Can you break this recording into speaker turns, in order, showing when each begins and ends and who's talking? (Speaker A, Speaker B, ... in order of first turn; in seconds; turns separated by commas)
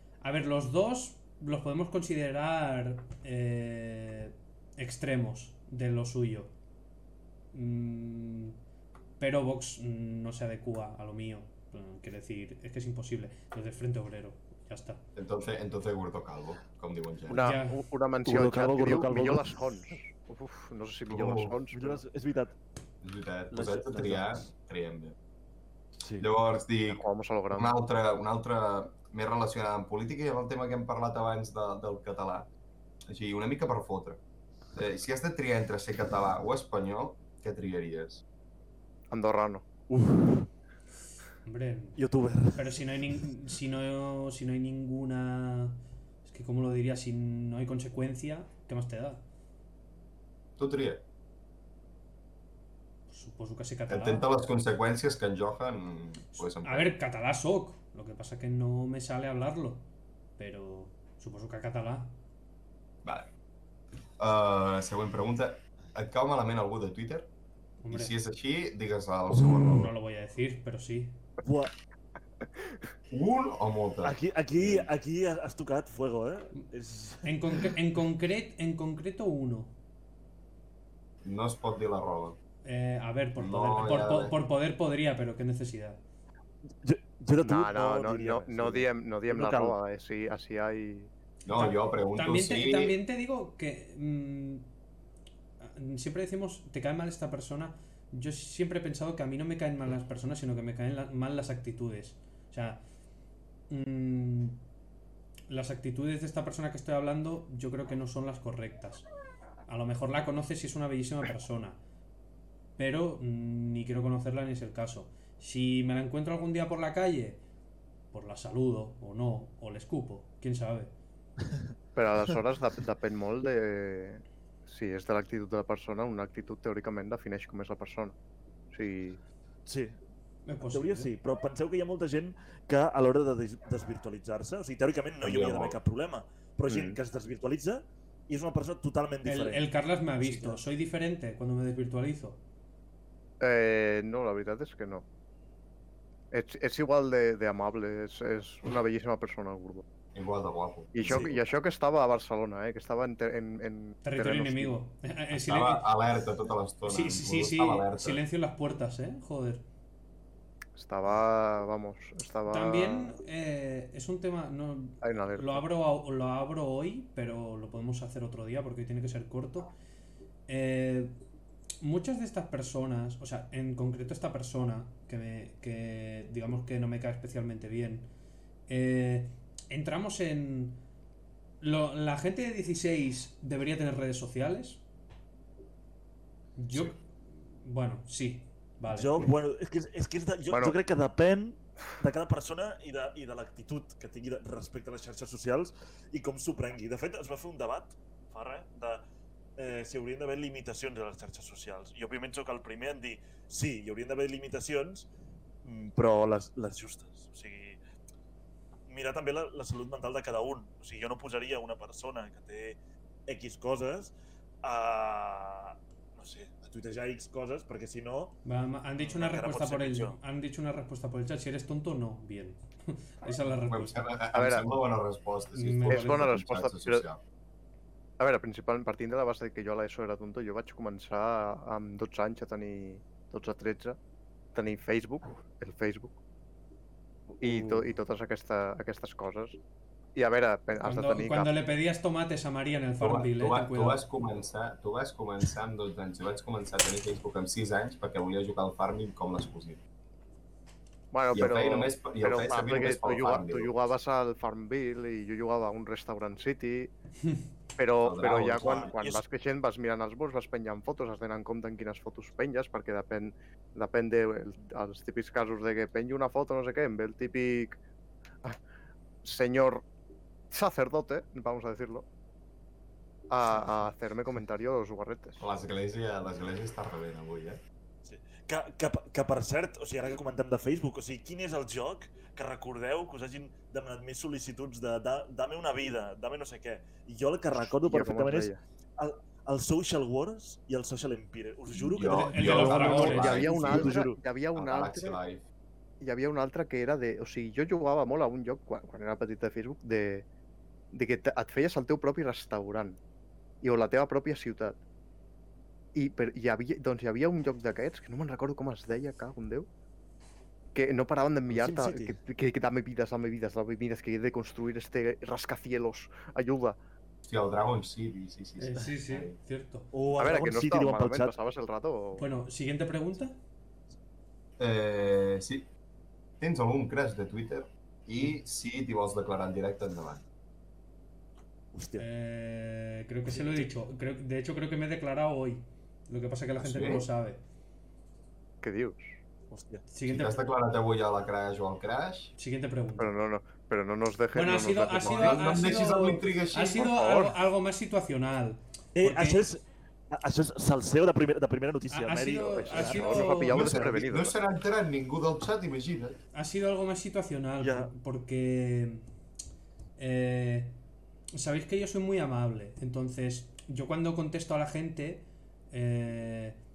Speaker A: 0.2-6.5, Speaker A: 7.5-8.6, Speaker A: 9.2-15.0, Speaker B: 15.1-17.5, Speaker C: 17.3-22.0, Speaker A: 17.4-17.8, Speaker D: 18.2-19.6, Speaker B: 21.1-21.6, Speaker D: 21.7-22.6, Speaker B: 23.0-25.1, Speaker D: 23.5-24.5, Speaker D: 26.0-26.3, Speaker B: 26.2-32.5, Speaker C: 26.9-27.8, Speaker B: 33.1-34.2, Speaker B: 34.7-38.2, Speaker C: 39.1-39.6, Speaker D: 39.9-40.5, Speaker A: 41.4-42.0, Speaker D: 42.0-42.8, Speaker A: 42.5-49.2, Speaker B: 50.6-51.0, Speaker A: 53.1-54.3, Speaker B: 53.9-56.9, Speaker A: 56.3-59.9, Speaker A: 60.4-62.1, Speaker B: 63.0-63.3, Speaker B: 64.2-67.3, Speaker A: 67.8-68.1, Speaker B: 67.9-69.9, Speaker A: 69.5-71.2, Speaker D: 71.4-71.7, Speaker B: 73.1-74.9, Speaker D: 74.0-77.7, Speaker A: 77.2-79.7, Speaker B: 81.2-82.4, Speaker A: 82.6-86.0, Speaker B: 83.4-84.3, Speaker D: 86.8-89.8, Speaker C: 87.4-91.1, Speaker B: 91.4-93.0, Speaker A: 91.5-94.7, Speaker A: 95.6-102.8, Speaker A: 103.7-104.6, Speaker A: 105.5-109.1, Speaker A: 109.7-111.8, Speaker A: 112.8-117.4, Speaker A: 118.1-120.9, Speaker C: 121.9-128.2, Speaker C: 128.7-129.2, Speaker D: 129.7-130.0, Speaker A: 130.4-131.1, Speaker D: 130.7-140.6, Speaker B: 135.2-135.8, Speaker C: 136.7-137.0, Speaker A: 139.2-142.4, Speaker C: 143.4-145.1, Speaker C: 146.3-149.8, Speaker B: 150.1-151.4, Speaker C: 150.9-154.8, Speaker A: 154.0-155.8, Speaker B: 155.3-158.2, Speaker A: 156.9-159.6, Speaker C: 160.7-163.2, Speaker A: 162.5-169.7, Speaker C: 165.0-165.7, Speaker A: 170.5-171.1, Speaker A: 171.8-178.1, Speaker A: 178.7-180.8, Speaker A: 181.6-184.8, Speaker A: 186.6-187.0, Speaker A: 187.6-189.3, Speaker D: 188.9-199.0, Speaker C: 190.5-190.8, Speaker D: 199.6-205.1, Speaker D: 205.6-207.8, Speaker D: 208.9-218.4, Speaker A: 218.4-224.1, Speaker D: 219.0-220.2, Speaker B: 223.5-227.2, Speaker C: 224.3-224.7, Speaker A: 225.5-226.3, Speaker C: 225.9-227.0, Speaker C: 228.2-234.0, Speaker C: 234.5-236.2, Speaker D: 237.3-237.8, Speaker C: 237.4-239.6, Speaker C: 240.1-241.5, Speaker A: 240.8-244.0, Speaker B: 243.0-249.8, Speaker C: 251.1-256.9, Speaker B: 251.3-253.8, Speaker C: 257.8-267.8, Speaker B: 258.0-258.9, Speaker D: 258.5-259.2, Speaker C: 269.2-269.8, Speaker C: 270.5-272.1, Speaker C: 273.3-275.4, Speaker B: 275.4-277.6, Speaker D: 278.0-294.2, Speaker C: 287.5-288.6, Speaker B: 291.7-294.0, Speaker A: 292.1-293.4, Speaker C: 292.8-295.2, Speaker B: 294.5-295.4, Speaker C: 296.0-300.2, Speaker C: 300.9-303.0, Speaker C: 303.6-304.8, Speaker C: 305.9-309.7, Speaker C: 310.7-316.8, Speaker D: 311.5-312.2, Speaker B: 317.3-319.3, Speaker A: 318.6-319.9, Speaker D: 319.9-321.3, Speaker C: 320.2-322.3, Speaker A: 322.1-323.4, Speaker B: 324.6-325.7, Speaker B: 326.4-330.2, Speaker D: 331.7-332.1, Speaker A: 332.0-337.4, Speaker D: 333.3-333.7, Speaker B: 336.6-337.1, Speaker C: 338.6-339.1, Speaker D: 339.5-339.8, Speaker A: 339.9-340.5, Speaker B: 340.1-342.3, Speaker A: 342.4-343.1, Speaker C: 343.0-345.6, Speaker A: 344.3-349.4, Speaker B: 345.0-347.0, Speaker C: 346.7-347.4, Speaker D: 348.9-354.0, Speaker A: 351.9-353.6, Speaker C: 352.5-354.4, Speaker B: 353.5-356.2, Speaker A: 356.3-359.0, Speaker D: 357.6-357.9, Speaker A: 360.0-360.7, Speaker A: 361.3-366.6